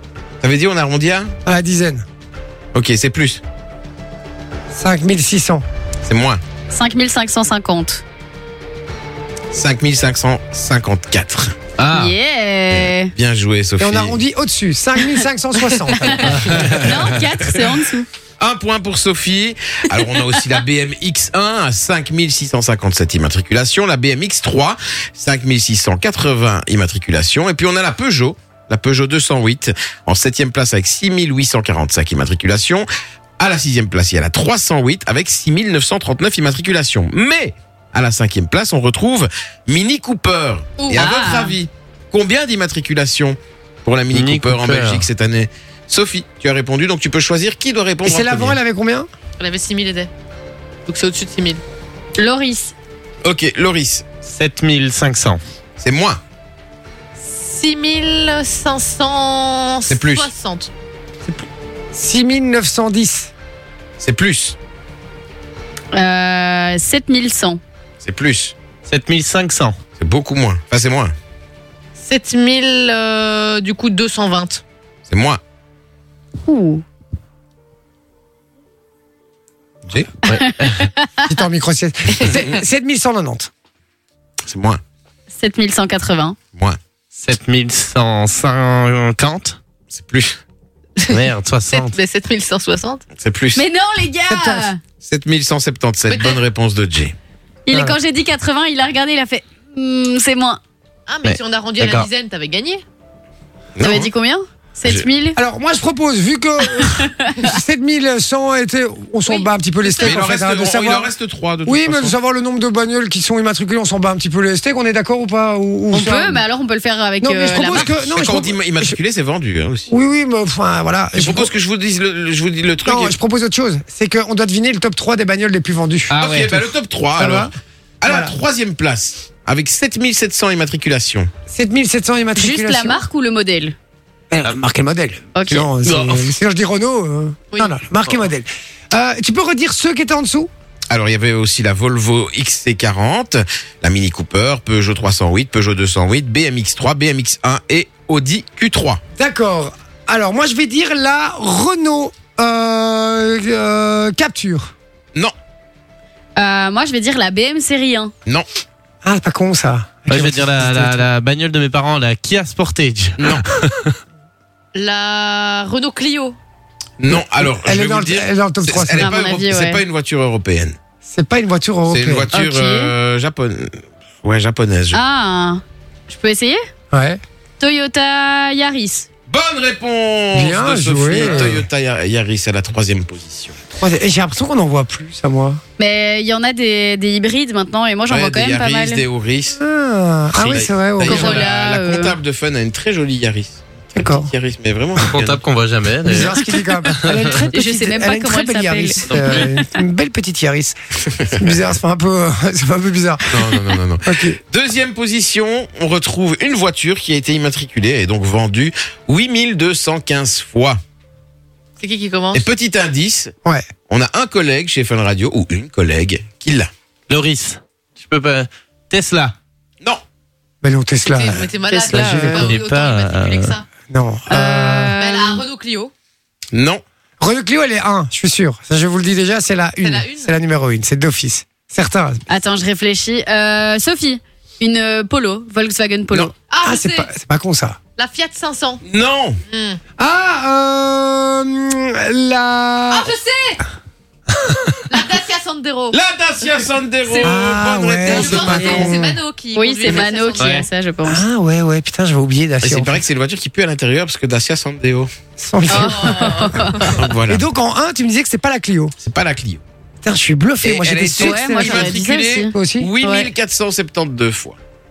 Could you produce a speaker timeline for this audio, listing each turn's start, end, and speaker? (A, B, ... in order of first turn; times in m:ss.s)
0:00.4-0:01.3 A
0:01.4-0:02.0 B
0:02.7-0:03.4 A
0:04.7-0:05.6 B
0:06.0-0:06.4 A
0:06.7-0:08.0 C
0:09.5-0:11.6 A
0:11.8-0:12.2 D
0:11.9-0:13.1 C
0:12.7-0:14.2 A
0:13.8-0:16.8 B
0:15.9-0:16.2 C
0:16.3-0:16.8 D
0:16.7-0:18.1 C
0:18.4-0:32.9 A
0:33.4-0:48.6 A
0:40.8-0:41.0 E
0:40.9-0:41.5 C
0:44.1-0:45.0 D
0:48.0-0:49.1 B
0:49.4-0:50.1 E
0:50.8-0:51.6 E
0:52.2-0:52.7 C
0:53.2-0:54.0 A
0:54.2-0:55.4 D
0:55.8-0:56.2 A
0:57.2-1:00.7 E
0:59.9-1:00.3 A
1:01.2-1:03.3 B
1:04.0-1:04.6 A
1:05.9-1:07.6 C
1:08.0-1:08.5 A
1:08.9-1:09.8 D
1:10.0-1:11.1 A
1:12.0-1:14.6 E
1:15.1-1:15.4 A
1:16.4-1:16.8 C
1:20.2-1:20.9 D
1:20.3-1:21.1 C
1:21.3-1:23.5 B
1:24.4-1:24.8 A
1:25.3-1:26.4 C
1:27.2-1:29.6 D
1:29.9-1:30.4 A
1:31.0-1:33.0 E
1:31.1-1:31.9 D
1:33.2-1:33.6 A
1:33.6-1:34.8 C
1:34.3-1:34.7 B
1:35.0-1:37.1 A
1:36.1-1:36.4 E
1:37.7-1:40.6 C
1:37.7-1:38.0 B
1:41.1-1:42.8 E
1:41.2-1:42.1 D
1:43.8-1:44.1 A
1:43.8-1:45.4 C
1:45.4-1:51.1 B
1:46.7-1:47.5 C
1:49.2-1:50.2 E
1:50.0-1:52.2 A
1:51.6-1:56.4 B
1:55.9-1:57.9 C
1:57.2-1:59.0 B
1:57.7-1:59.9 A
1:59.9-2:01.5 B
2:01.2-2:03.1 A
2:02.8-2:06.6 B
2:06.1-2:06.6 D
2:06.1-2:11.3 A
2:07.2-2:07.5 B
2:08.0-2:08.3 B
2:11.5-2:13.0 B
2:12.4-2:13.7 C
2:14.3-2:20.5 B
2:15.3-2:15.6 C
2:15.8-2:16.2 D
2:20.9-2:29.0 A
2:29.2-2:34.7 B
2:36.4-2:38.1 C
2:39.0-2:41.1 B
2:40.1-2:44.0 D
2:43.2-2:43.4 A
2:44.7-2:46.4 E
2:47.0-2:50.8 A
2:47.1-2:49.1 B
2:49.0-2:49.8 C
2:51.0-2:52.3 B
2:51.9-2:55.0 A
2:52.3-2:52.9 C
2:54.9-2:56.6 C
2:56.9-2:57.2 B
2:57.6-2:59.1 C
2:59.3-3:03.6 A
3:00.3-3:01.6 B
3:03.8-3:05.6 B
3:05.8-3:09.0 C
3:08.1-3:09.6 A
3:09.6-3:11.4 B
3:10.4-3:15.4 A
3:11.0-3:12.2 C
3:13.9-3:14.3 B
3:15.0-3:16.4 D
3:16.0-3:20.8 B
3:17.0-3:17.5 D
3:17.3-3:19.0 C
3:19.1-3:19.5 D
3:21.2-3:21.6 A
3:21.3-3:24.4 B
3:23.3-3:30.8 A
3:31.8-3:32.4 E
3:32.3-3:33.3 A
3:33.9-3:36.7 A
3:37.1-3:39.3 D
3:40.6-3:42.6 B
3:41.1-3:43.6 E
3:41.7-3:42.2 C
3:41.8-3:43.5 D
3:43.9-3:44.9 B
3:44.3-3:45.4 C
3:45.0-3:45.9 E
3:46.5-3:46.8 A
3:47.2-3:52.2 B
3:49.8-3:50.3 E
3:52.3-3:56.3 C
3:56.5-3:57.1 E
3:56.6-3:57.8 B
3:58.0-3:58.8 E
3:58.8-3:59.4 A
3:59.5-3:59.8 E
4:00.0-4:03.1 B
4:02.9-4:03.6 E
4:04.4-4:04.8 B
4:04.9-4:06.0 E
4:05.9-4:09.0 A
4:07.1-4:07.4 E
4:07.2-4:09.2 B
4:08.0-4:10.7 E
4:08.6-4:08.8 C
4:09.5-4:11.2 C
4:10.4-4:10.6 D
4:11.0-4:13.0 B
4:12.6-4:15.1 A
4:15.4-4:16.6 B
4:15.7-4:16.9 C
4:15.7-4:17.0 E
4:16.9-4:17.4 A
4:17.3-4:18.9 B
4:19.0-4:19.6 A
4:20.0-4:22.9 B
4:20.6-4:24.6 A
4:21.2-4:23.3 C